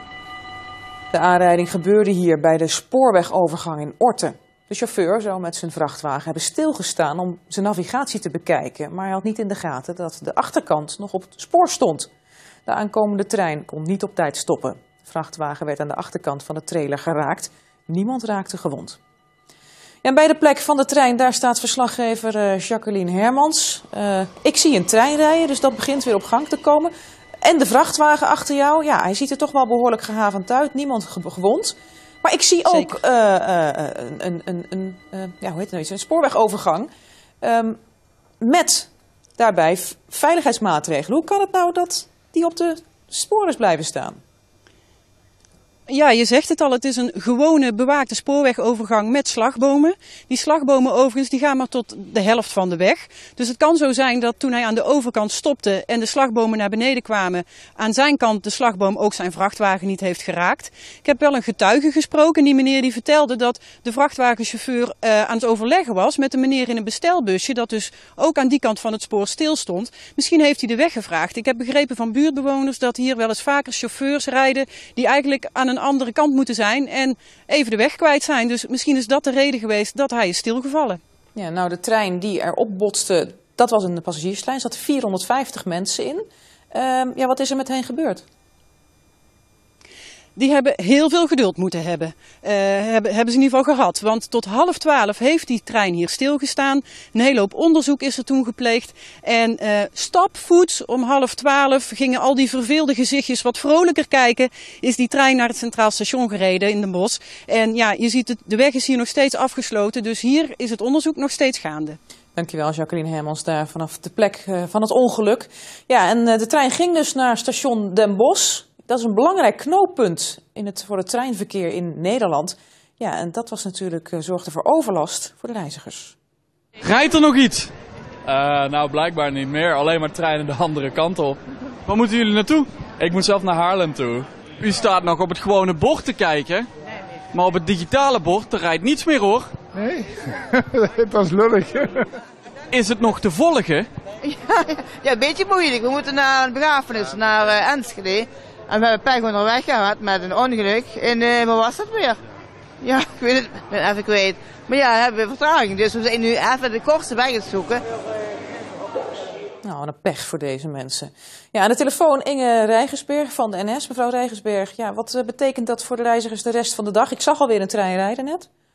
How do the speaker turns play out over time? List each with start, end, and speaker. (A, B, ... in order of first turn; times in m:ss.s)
0:01.1-0:12.1 A
0:12.7-0:19.0 A
0:20.0-0:36.9 A
0:37.4-0:37.8 A
0:38.4-0:44.2 A
0:45.9-1:21.0 B
1:21.4-1:28.2 A
1:30.4-1:52.0 B
1:52.4-2:06.2 A
2:06.8-2:07.7 C
2:08.3-2:11.4 D
2:11.9-2:12.7 C
2:12.9-2:14.3 D
2:14.6-2:16.7 C
2:17.3-2:19.5 C
2:19.8-2:22.0 E
2:22.7-2:23.9 C
2:24.2-2:32.2 F
2:32.8-2:37.8 F
2:39.6-2:48.5 A